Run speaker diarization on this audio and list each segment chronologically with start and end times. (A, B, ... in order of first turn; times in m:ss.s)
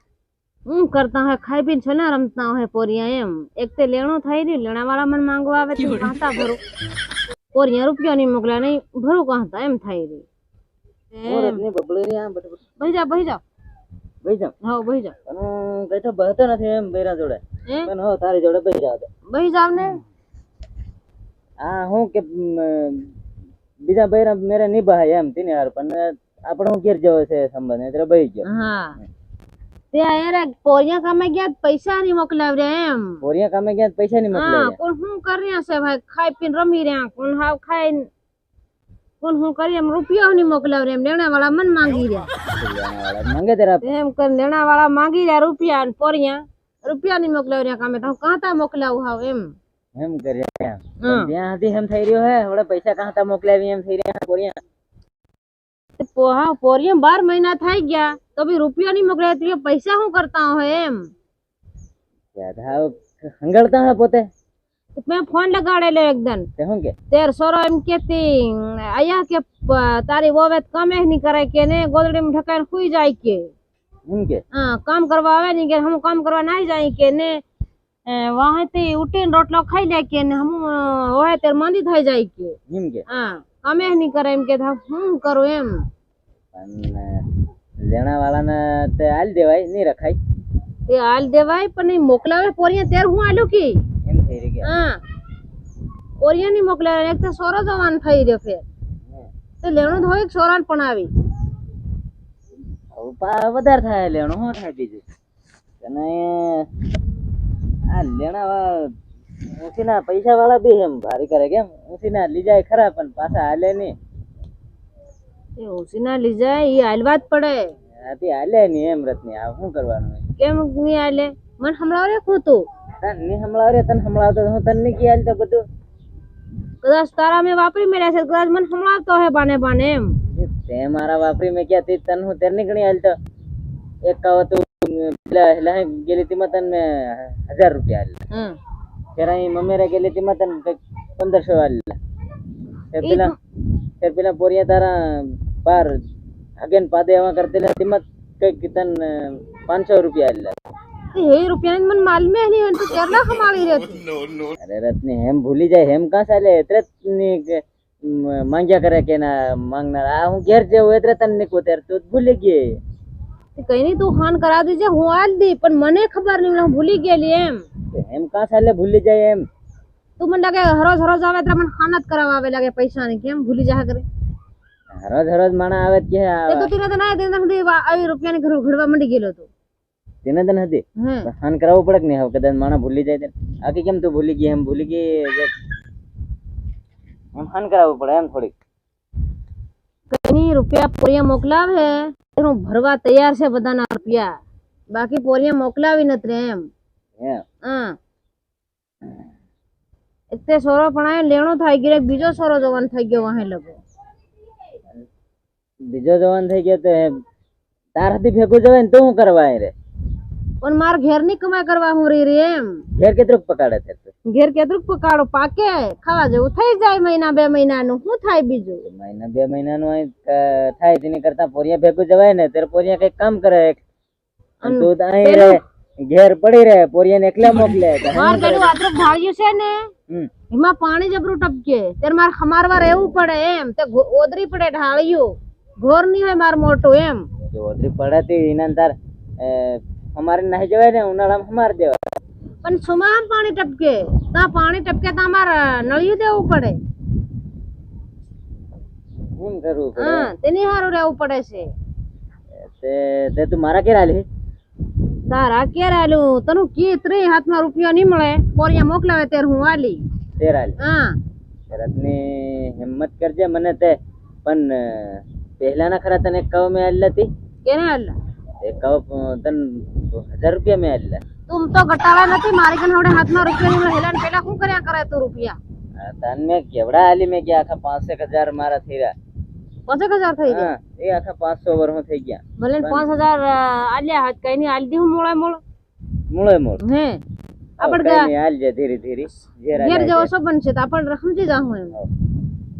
0:00.7-0:06.6 A
0:07.5-0:10.2 A
0:11.1-0:11.6 A
0:11.3-0:12.6 B
0:12.8-0:13.4 A
0:14.2-0:14.5 B
0:14.6-0:15.2 A
0:15.3-0:19.1 B
0:19.3-0:20.0 A
0:21.6-0:23.2 B
0:23.8-0:28.5 B
0:28.4-0:29.0 A
0:29.9-0:33.2 A
0:33.2-0:34.8 B
0:34.3-0:38.1 A
0:39.2-0:42.3 A
0:42.5-0:43.8 B
0:43.8-0:49.5 A
0:50.0-0:54.6 B
0:51.0-0:51.3 A
0:56.0-1:01.1 A
1:02.4-1:04.3 B
1:05.0-1:06.5 A
1:06.6-1:07.0 B
1:07.1-1:13.5 A
1:14.1-1:14.4 B
1:14.5-1:17.4 A
1:18.0-1:22.6 A
1:22.7-1:23.0 B
1:23.1-1:25.8 A
1:26.5-1:30.2 B
1:30.9-1:33.8 A
1:34.0-1:34.7 B
1:34.6-1:35.0 A
1:36.2-1:38.6 A
1:39.6-1:41.1 A
1:42.9-1:45.0 B
1:45.8-1:46.7 B
1:47.9-1:48.9 B
1:49.6-1:53.9 B
1:55.6-1:57.7 A
1:58.0-2:00.2 B
2:00.4-2:02.6 A
2:03.0-2:05.6 B
2:06.8-2:10.2 A
2:10.3-2:13.2 B
2:14.1-2:18.2 B
2:18.3-2:18.6 A
2:19.2-2:22.0 B
2:22.9-2:23.3 B
2:23.0-2:23.3 A
2:24.0-2:26.0 B
2:26.6-2:30.6 B
2:31.1-2:34.1 A
2:34.6-2:42.7 B
2:43.6-2:47.6 A
2:47.9-2:49.4 B
2:50.2-2:54.0 A
2:54.9-2:56.7 B
2:56.5-2:59.5 A
3:00.2-3:05.5 B
3:01.0-3:01.3 A
3:07.3-3:08.5 B
3:10.1-3:14.3 A
3:14.9-3:16.7 A
3:17.6-3:18.0 A
3:20.3-3:23.8 A
3:25.9-3:27.1 B
3:28.0-3:29.7 B
3:30.6-3:32.8 A
3:33.0-3:34.1 B
3:34.3-3:38.8 A
3:38.8-3:43.8 B
3:44.6-3:48.8 B
3:44.6-3:45.6 A
3:48.1-3:49.9 A
3:50.5-3:57.2 A
3:57.5-4:02.0 B
4:02.6-4:06.8 A
4:09.4-4:10.3 B
4:10.0-4:11.7 A
4:12.6-4:14.2 B
4:15.3-4:20.0 A
4:20.4-4:20.8 B
4:20.8-4:21.2 A
4:21.7-4:27.3 B
4:27.6-4:28.1 A
4:28.6-4:31.2 B
4:31.5-4:35.6 A
4:36.0-4:39.1 B
4:39.9-4:40.7 A
4:40.5-4:43.1 B
4:42.6-4:45.6 A
4:46.3-4:46.8 B
4:46.8-4:47.2 A
4:47.8-4:48.3 A
4:47.8-4:50.3 B
4:49.8-4:52.0 A